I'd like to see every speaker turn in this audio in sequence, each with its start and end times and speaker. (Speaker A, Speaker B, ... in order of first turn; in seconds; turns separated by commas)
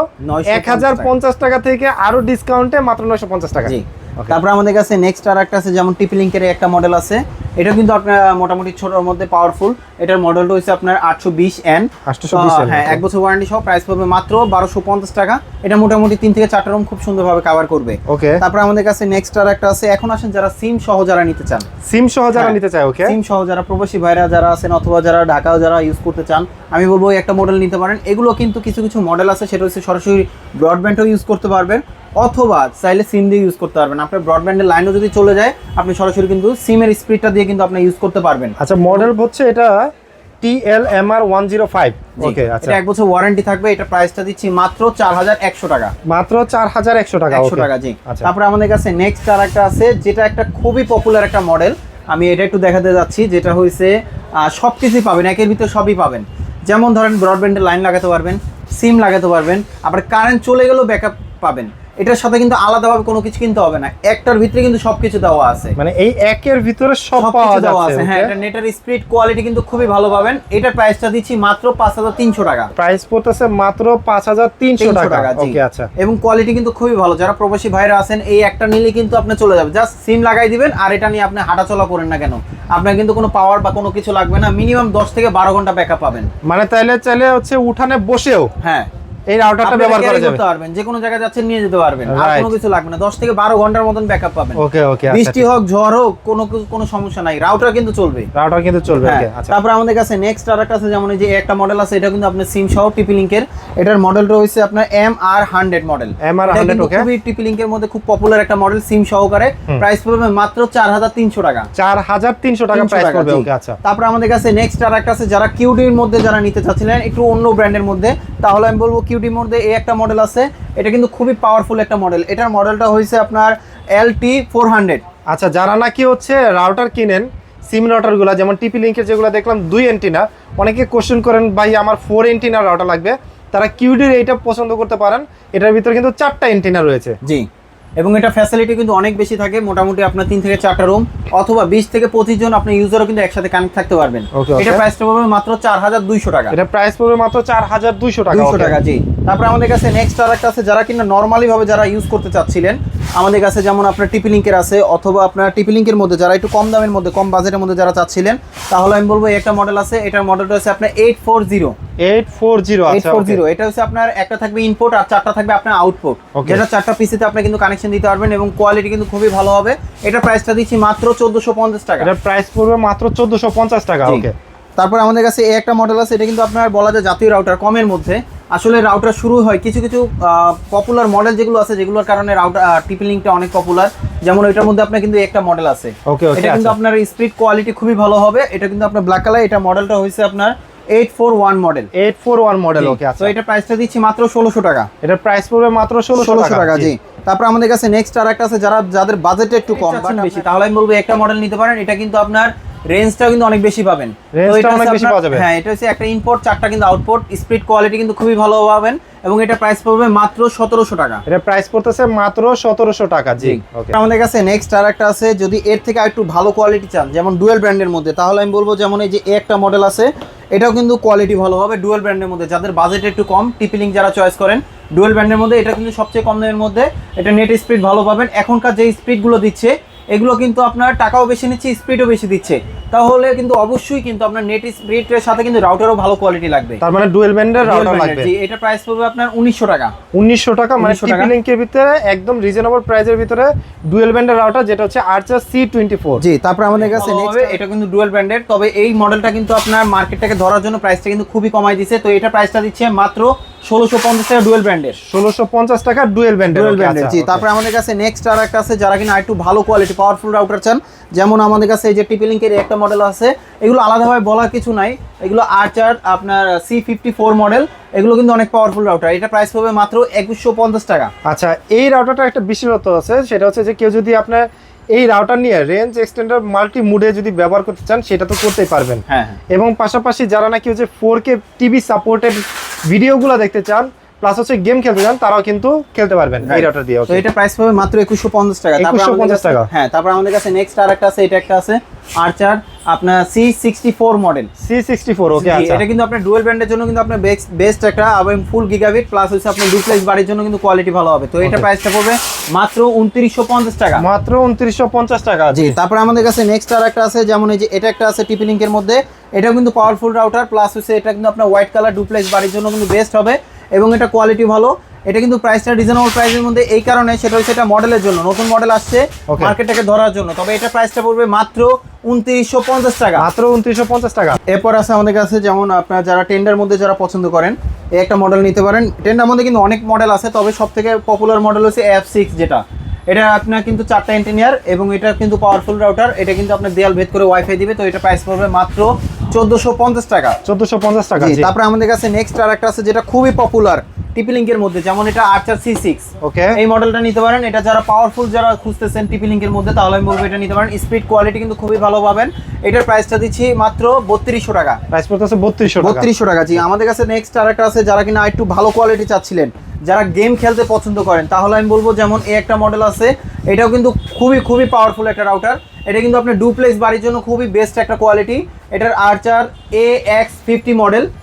Speaker A: 0.2-1.1, Speaker B: 0.5-4.4, Speaker A: 3.6-21.7, Speaker B: 12.1-13.0, Speaker B: 18.1-18.4, Speaker B: 21.8-23.2, Speaker A: 22.3-39.1, Speaker B: 38.6-42.8, Speaker A: 42.2-45.9, Speaker B: 46.0-48.3, Speaker A: 47.3-65.7, Speaker B: 65.8-68.3, Speaker A: 67.2-72.7, Speaker B: 72.8-75.9, Speaker A: 74.8-86.3, Speaker B: 86.4-88.5, Speaker A: 88.6-88.9, Speaker B: 89.3-90.4, Speaker A: 89.6-98.3, Speaker B: 92.1-92.5, Speaker B: 94.6-95.5, Speaker B: 98.3-99.5, Speaker A: 99.0-111.7, Speaker B: 106.2-107.1, Speaker B: 111.7-113.8, Speaker A: 112.7-125.0, Speaker B: 125.3-137.2, Speaker A: 138.0-146.6, Speaker B: 144.3-144.8, Speaker B: 146.5-148.8, Speaker A: 148.3-161.7, Speaker B: 162.0-163.4, Speaker A: 162.9-172.1, Speaker B: 166.3-166.6, Speaker B: 172.0-174.3, Speaker A: 174.8-191.9, Speaker B: 186.1-186.8, Speaker B: 191.9-193.3, Speaker A: 192.8-194.9, Speaker B: 195.0-196.9, Speaker A: 196.1-211.2, Speaker B: 199.8-200.4, Speaker B: 204.3-205.4, Speaker B: 211.2-213.9, Speaker A: 213.4-236.8, Speaker B: 236.8-238.3, Speaker A: 237.6-239.9, Speaker B: 240.1-246.2, Speaker A: 240.8-241.3, Speaker A: 246.2-255.0, Speaker B: 246.8-247.6, Speaker B: 255.0-257.4, Speaker A: 256.5-271.1, Speaker B: 271.2-287.2, Speaker A: 279.1-279.4, Speaker A: 286.4-294.5, Speaker B: 288.8-289.7, Speaker B: 294.6-295.8, Speaker A: 295.3-304.0, Speaker B: 304.0-305.8, Speaker A: 305.5-323.3, Speaker B: 319.3-319.6, Speaker B: 323.2-324.4, Speaker A: 324.4-340.4, Speaker B: 340.4-341.5, Speaker A: 341.2-354.8, Speaker B: 346.2-346.6, Speaker B: 354.9-356.1, Speaker A: 355.8-371.1